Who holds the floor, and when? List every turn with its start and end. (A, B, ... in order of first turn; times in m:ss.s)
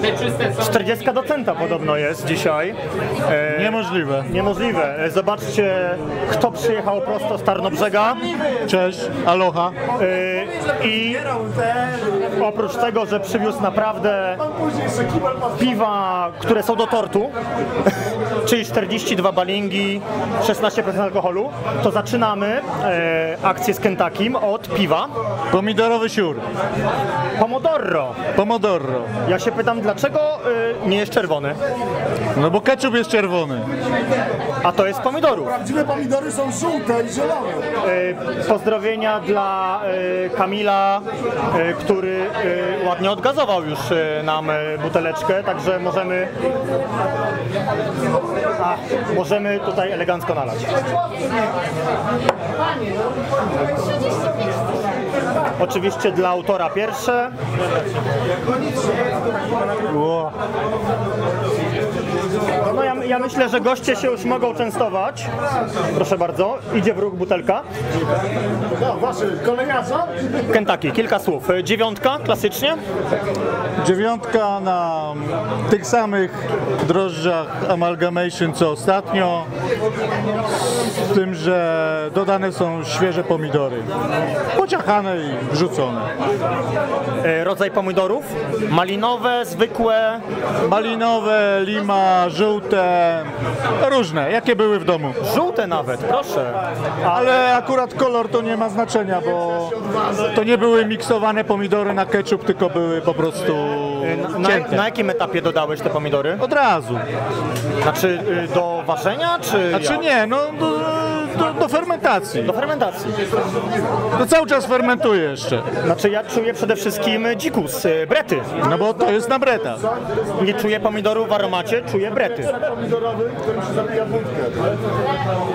0:00.4-0:08.3 A
0:03.5-0:04.3 B
0:08.3-0:09.8 B
0:09.9-0:14.4 A
0:14.6-0:15.3 C
0:15.5-0:17.3 A
0:18.4-0:25.1 A
0:25.5-0:26.4 B
0:27.4-0:28.2 A
0:28.3-0:29.1 B
0:29.2-0:31.6 A
0:32.4-0:33.7 B
0:34.6-0:35.6 A
0:35.5-0:37.7 C
0:37.8-0:46.3 A
0:48.6-0:50.8 A
0:55.6-0:57.3 A
0:59.8-1:00.3 B
1:02.6-1:05.3 A
1:05.9-1:07.6 A
1:08.7-1:10.4 C
1:10.4-1:12.8 A
1:13.8-1:19.5 B
1:20.5-1:23.9 B
1:24.5-1:26.1 B
1:27.2-1:30.2 A
1:30.6-1:35.2 B
1:35.2-1:37.4 A
1:37.1-1:44.8 B
1:44.0-1:46.4 A
1:46.4-1:47.0 B
1:47.8-1:50.0 A
1:49.7-1:52.5 B
1:52.4-1:53.1 A
1:54.1-1:55.6 B
1:55.8-1:58.5 A
1:58.6-1:59.8 B
2:00.4-2:02.5 A
2:02.4-2:04.6 C